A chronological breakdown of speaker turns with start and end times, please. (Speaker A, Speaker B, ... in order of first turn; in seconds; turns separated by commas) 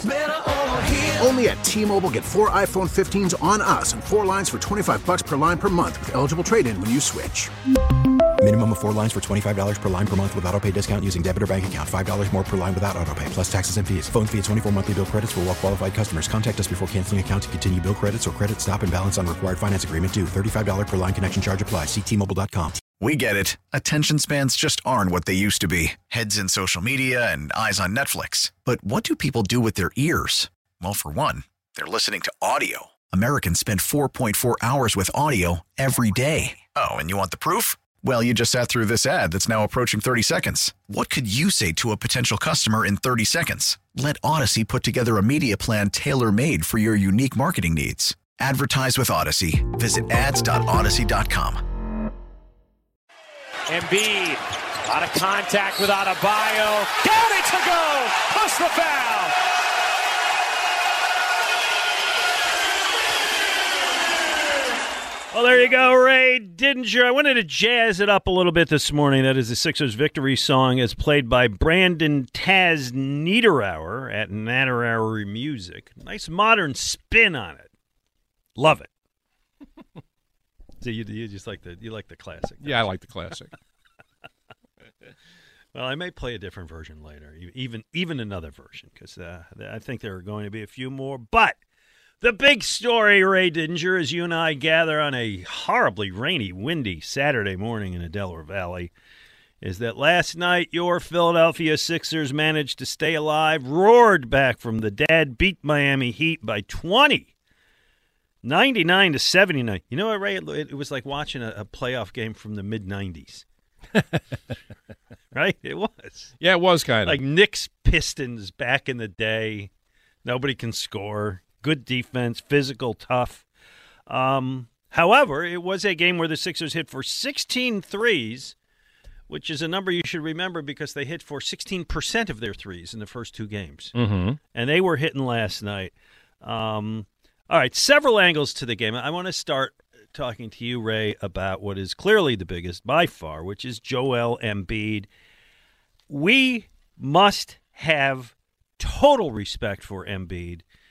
Speaker A: 1.0-7.5, Speaker B: 8.4-22.8, Speaker C: 23.0-51.6, Speaker D: 53.7-59.4, Speaker E: 65.3-77.7, Speaker E: 78.6-78.9, Speaker E: 80.8-82.9, Speaker F: 82.6-83.5, Speaker E: 85.7-91.6, Speaker E: 92.2-98.9, Speaker E: 99.6-107.3, Speaker E: 108.4-113.4, Speaker E: 115.3-116.3, Speaker F: 116.4-117.2, Speaker E: 117.0-119.7, Speaker E: 120.2-123.5, Speaker E: 124.1-128.6, Speaker E: 129.3-133.9, Speaker F: 133.9-134.4, Speaker E: 134.5-145.1, Speaker E: 146.1-150.6